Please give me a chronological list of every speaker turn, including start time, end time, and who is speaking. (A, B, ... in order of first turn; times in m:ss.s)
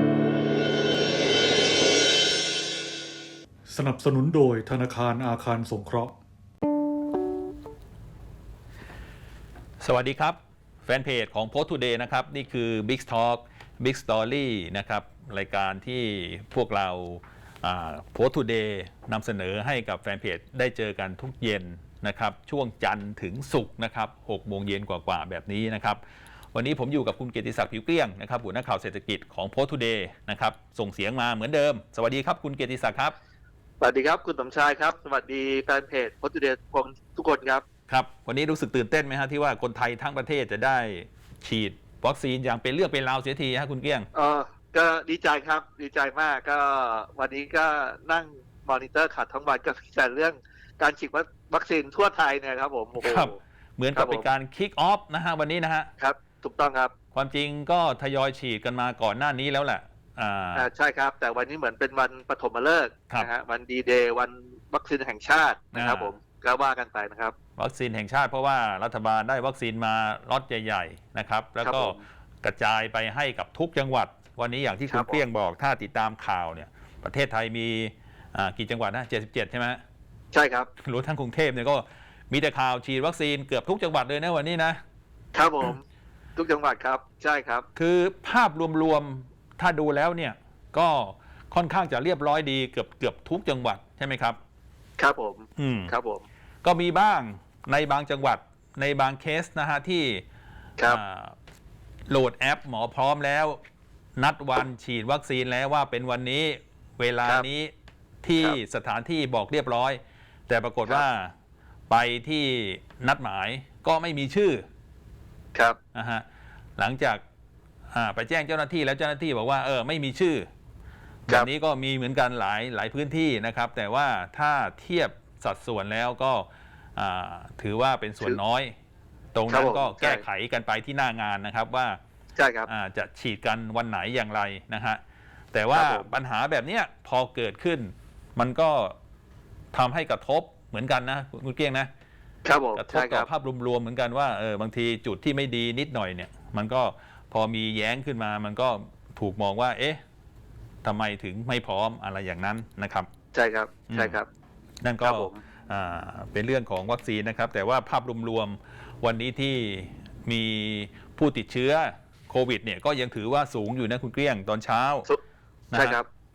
0:03.6-0:06.2 A
0:09.8-0:26.0 B
0:26.5-0:33.1 B
0:33.8-0:37.6 C
0:37.9-0:44.1 B
0:44.1-0:53.4 C
0:53.0-0:55.9 B
0:53.9-0:54.3 C
0:56.0-0:56.9 C
0:57.1-1:00.7 B
1:00.5-1:07.3 C
1:05.7-1:06.1 B
1:07.6-1:19.8 B
1:11.6-1:12.0 C
1:14.9-1:15.2 C
1:20.3-1:20.7 C
1:20.8-1:24.8 B
1:25.3-1:25.8 C
1:26.4-1:27.7 C
1:27.8-1:34.4 B
1:35.0-1:36.2 C
1:35.6-1:35.9 B
1:36.6-1:40.2 B
1:40.9-1:41.4 B
1:42.1-1:43.6 B
1:44.2-1:51.3 B
1:51.9-1:54.6 B
1:55.9-1:56.2 B
1:56.8-1:57.2 B
1:57.9-2:00.5 B
2:01.3-2:08.7 B
2:09.3-2:12.0 B
2:09.5-2:10.2 C
2:12.4-2:12.7 C
2:12.7-2:15.0 B
2:15.5-2:19.0 B
2:15.7-2:16.1 C
2:19.7-2:21.9 B
2:22.4-2:23.3 C
2:22.7-2:30.0 B
2:30.8-2:33.1 B
2:33.3-2:34.3 C
2:33.9-2:34.2 B
2:34.8-2:45.1 B
2:35.0-2:35.4 C
2:45.7-2:46.0 B
2:45.7-2:46.1 C